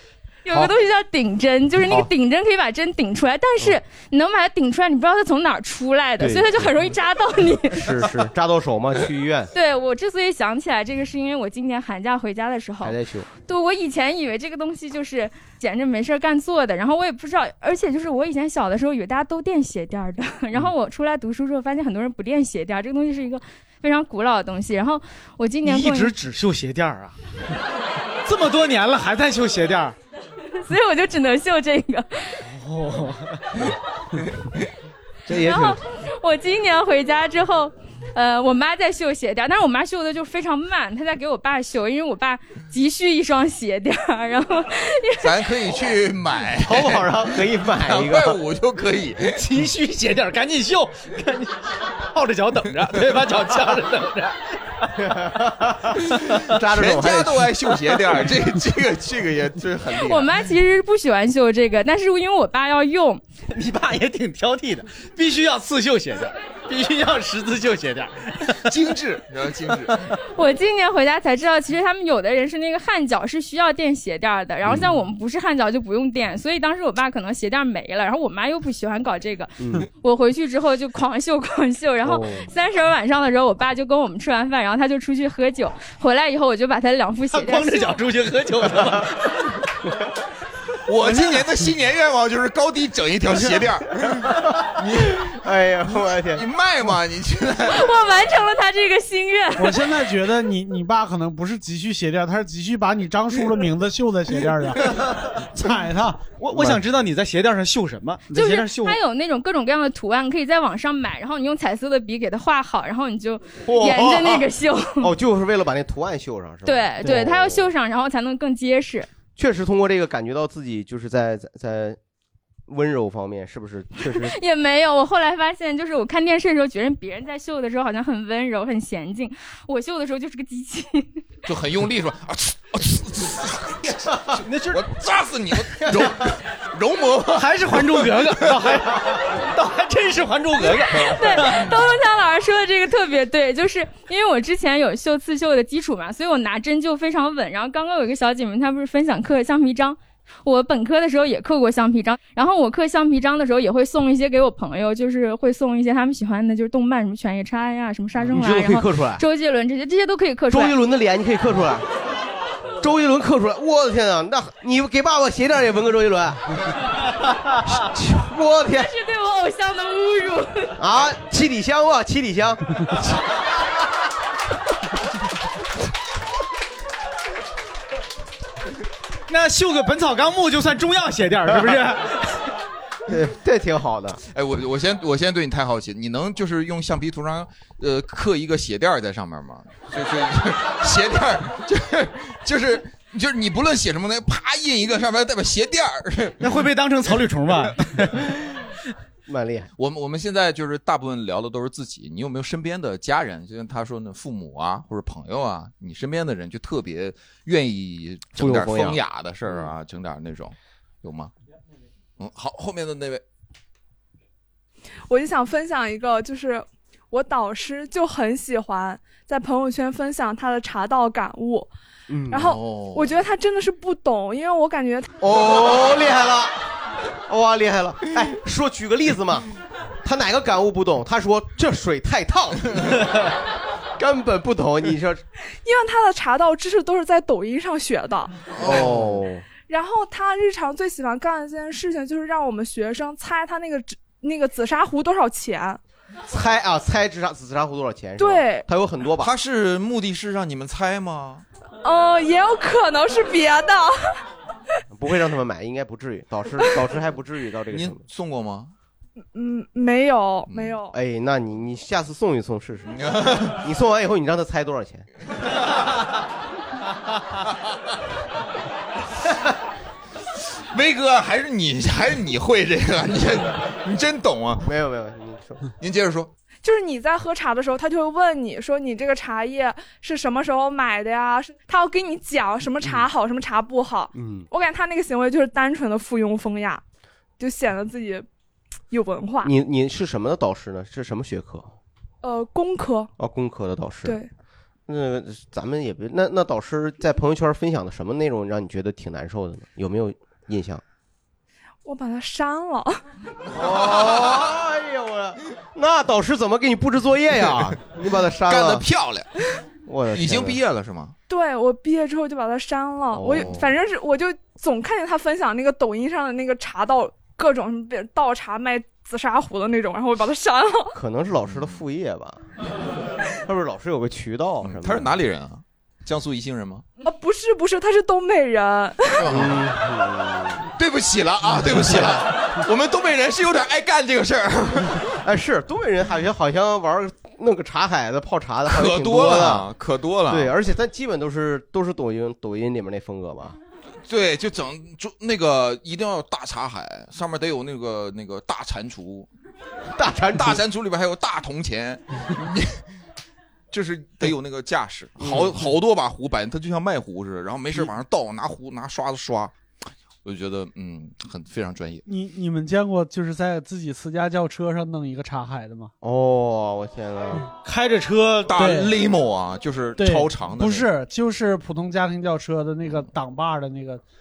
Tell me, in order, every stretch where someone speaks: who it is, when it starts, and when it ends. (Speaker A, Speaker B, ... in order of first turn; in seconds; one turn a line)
Speaker A: 0.4-8.0
Speaker B: 6.2-6.7
Speaker B: 7.7-9.5
Speaker A: 9.5-26.1
Speaker B: 12.8-13.3
Speaker C: 25.6-27.1
Speaker C: 28.2-29.9
Speaker A: 30.6-32.4
Speaker C: 32.4-33.5
Speaker B: 35.3-35.8
Speaker A: 35.3-45.5
Speaker D: 45.2-49.4
Speaker B: 46.6-48.4
Speaker C: 49.4-54.4
Speaker B: 55.0-57.6
Speaker D: 56.2-60.3
Speaker A: 60.0-63.2
Speaker C: 63.5-68.7
Speaker D: 68.7-70.0
Speaker A: 70.3-88.0
Speaker B: 74.7-74.9
Speaker B: 79.6-79.9
Speaker B: 82.0-82.5
Speaker C: 87.3-89.2
Speaker D: 90.9-95.3
Speaker B: 95.1-96.4
Speaker D: 96.3-97.9
Speaker A: 97.7-99.9
Speaker E: 99.6-106.2
Speaker C: 106.4-109.0
Speaker B: 106.5-106.8
Speaker A: 108.3-115.1
Speaker B: 113.6-117.7
Speaker A: 116.6-119.1
Speaker B: 119.4-122.0
Speaker B: 122.7-124.4
Speaker A: 124.1-131.1
Speaker D: 131.4-138.5
Speaker C: 134.4-134.8
Speaker C: 137.3-141.7
Speaker A: 140.7-160.8
Speaker B: 158.3-159.2
Speaker B: 160.5-161.8
Speaker B: 162.8-166.5
Speaker B: 167.6-168.9
Speaker A: 168.7-170.8
Speaker B: 170.8-173.0
Speaker C: 179.3-182.3
Speaker B: 183.1-184.2
Speaker D: 184.3-196.4
Speaker C: 196.4-198.2
Speaker B: 199.3-199.7
Speaker D: 199.8-211.3
Speaker B: 208.4-209.7
Speaker D: 212.2-213.2
Speaker F: 215.1-221.7
Speaker B: 222.1-222.5
Speaker F: 222.3-225.1
Speaker D: 222.4-223.1
Speaker B: 225.2-226.5
Speaker B: 227.3-229.4
Speaker B: 230.0-233.1
Speaker B: 234.0-235.2
Speaker F: 235.6-238.4
Speaker D: 238.5-239.0
Speaker B: 238.6-239.4
Speaker F: 239.7-245.8
Speaker B: 246.3-249.3
Speaker F: 248.2-248.7
Speaker D: 249.2-251.4
Speaker F: 251.8-254.2
Speaker B: 254.9-258.0
Speaker D: 257.7-258.7
Speaker F: 259.3-260.9
Speaker D: 260.5-260.8
Speaker B: 260.9-263.0
Speaker D: 262.9-263.6
Speaker B: 263.5-265.1
Speaker D: 270.7-274.7
Speaker B: 274.6-275.6
Speaker D: 275.8-276.3
Speaker F: 276.6-286.8
Speaker B: 284.1-284.5
Speaker F: 287.4-288.2
Speaker F: 288.9-289.5
Speaker B: 289.4-291.7
Speaker F: 292.2-293.1
Speaker B: 293.2-294.2
Speaker F: 294.0-294.3
Speaker B: 294.9-300.8
Speaker F: 301.8-303.0
Speaker B: 303.5-308.9
Speaker D: 303.7-304.4
Speaker D: 308.5-309.3
Speaker B: 309.9-310.6
Speaker D: 310.1-311.1
Speaker F: 311.3-320.9
Speaker B: 313.1-313.7
Speaker D: 313.3-313.6
Speaker B: 320.9-322.4
Speaker D: 321.5-321.8
Speaker B: 323.4-325.1
Speaker D: 324.6-326.8
Speaker F: 327.0-329.2
Speaker D: 329.2-329.7
Speaker B: 329.2-330.6
Speaker D: 330.8-335.1
Speaker B: 335.2-339.7
Speaker D: 338.7-340.5
Speaker B: 340.3-343.6
Speaker D: 344.0-349.3
Speaker B: 349.9-350.6
Speaker D: 350.4-352.8
Speaker D: 353.7-359.5
Speaker B: 355.2-355.5
Speaker D: 360.2-362.0
Speaker E: 362.1-365.9
Speaker B: 366.0-367.4
Speaker C: 367.6-368.6
Speaker D: 368.5-370.9
Speaker E: 368.6-368.9
Speaker E: 370.0-374.0